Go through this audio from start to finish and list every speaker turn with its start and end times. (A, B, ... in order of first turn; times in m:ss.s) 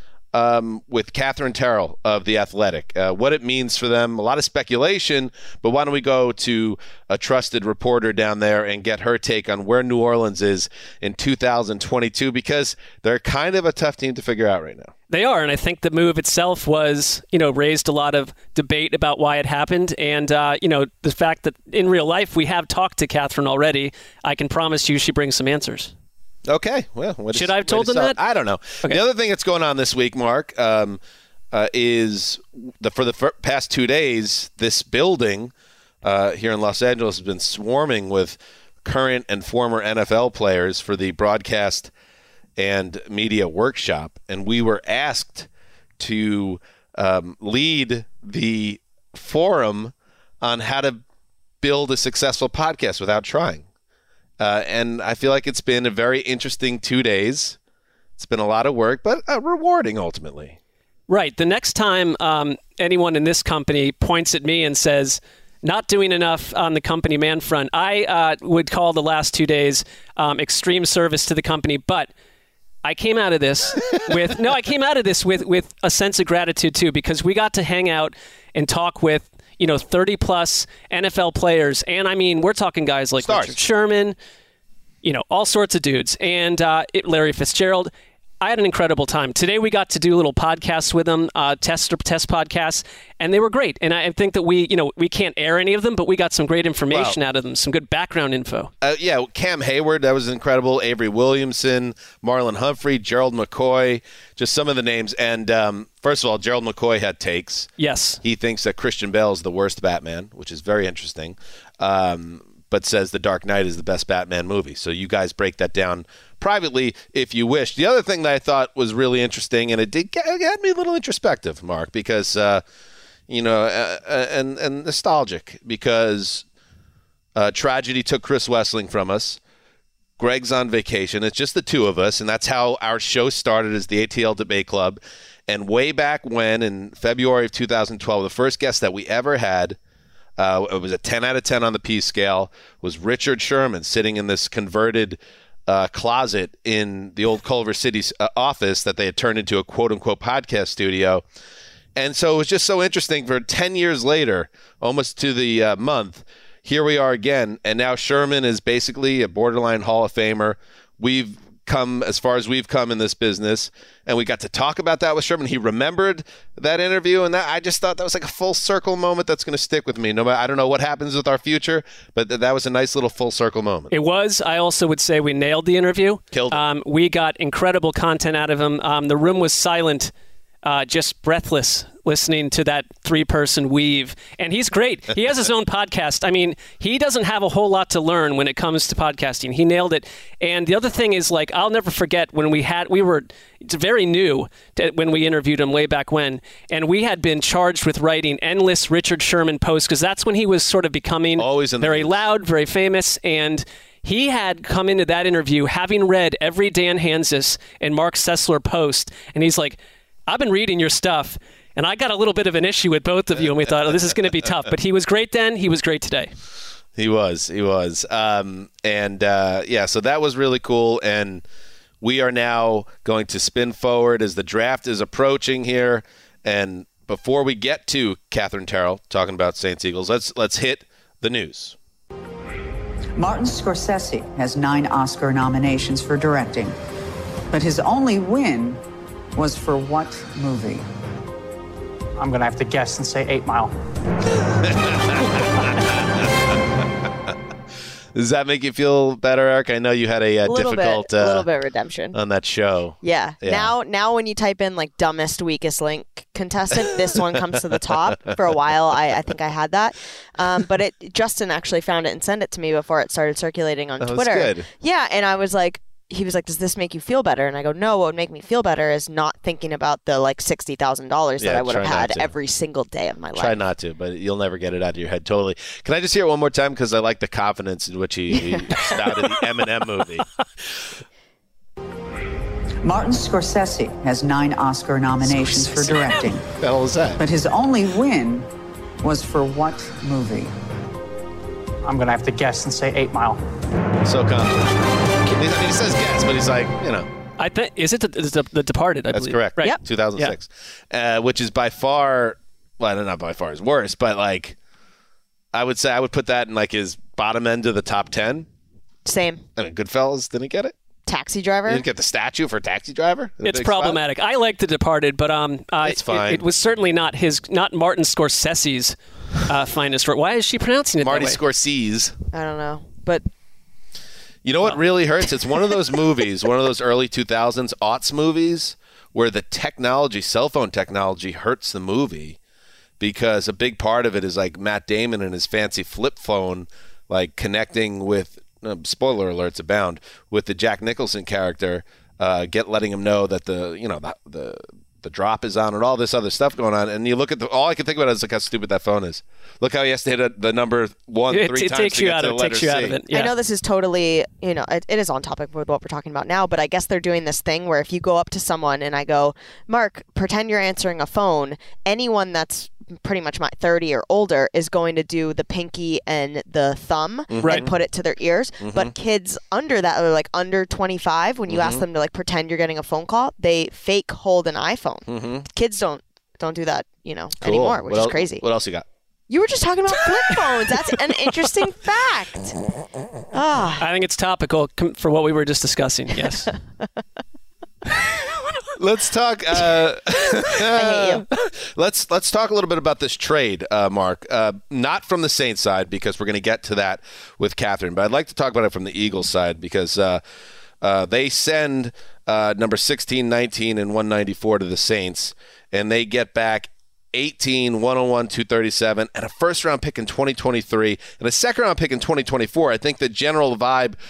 0:00.3-0:14.9 A
0:15.1-0:25.9 B
0:26.5-0:31.0 A
0:27.3-0:28.2 B
0:31.5-0:35.5 A
0:36.0-0:41.9 A
0:42.6-0:51.0 A
0:51.6-0:53.6 A
0:54.4-0:57.6 A
0:58.2-1:00.6 A
1:01.1-1:12.1 B
1:12.8-1:24.2 B
1:23.2-1:23.6 A
1:25.0-1:38.7 B
1:36.9-1:37.2 A
1:38.8-1:47.7 A
1:47.8-1:48.2 B
1:48.2-2:02.6 A
2:03.3-2:06.4 A
2:07.3-2:09.4 A
2:10.2-2:19.8 A
2:20.4-2:31.2 A
2:32.0-2:53.9 A
2:53.9-3:00.1 B
2:56.3-2:56.6 A
3:00.6-3:36.3 B
3:21.4-3:22.2 A
3:37.0-3:41.4 A
3:42.0-3:51.8 A
3:53.2-3:56.8 C
3:57.5-3:58.8 C
3:59.4-4:00.9 C
4:02.2-4:03.7 D
4:04.6-4:06.4 A
4:08.1-4:11.5 A
4:10.4-4:12.2 E
4:12.1-4:13.7 A
4:13.0-4:33.6 E
4:17.7-4:18.2 A
4:24.0-4:24.7 A
4:31.4-4:32.3 A
4:33.3-4:40.2 A
4:38.3-4:39.0 E
4:42.8-4:46.5 C
4:45.2-4:46.0 A
4:46.6-4:47.2 A
4:47.2-4:48.5 C
4:49.0-4:50.5 C
4:51.8-4:53.4 D
4:54.0-4:57.1 A
4:57.4-5:00.3 B
4:59.1-5:04.6 A
5:05.5-5:08.5 A
5:09.0-5:09.4 E
5:09.6-5:10.7 A
5:11.1-5:11.8 E
5:11.6-5:14.0 A
5:13.4-5:21.4 B
5:15.8-5:16.4 A
5:21.0-5:22.2 A
5:22.3-5:23.2 E
5:24.4-5:32.4 A
5:33.0-5:53.0 A
5:51.3-5:53.3 B
5:53.1-6:18.4 E
6:07.3-6:07.7 A
6:08.6-6:08.9 A
6:11.5-6:11.8 A
6:15.1-6:15.4 A
6:17.4-6:18.8 A
6:19.3-6:22.6 E
6:23.3-6:23.8 E
6:23.8-6:26.5 B
6:28.8-6:40.2 A
6:30.5-6:31.3 E
6:40.8-6:54.0 A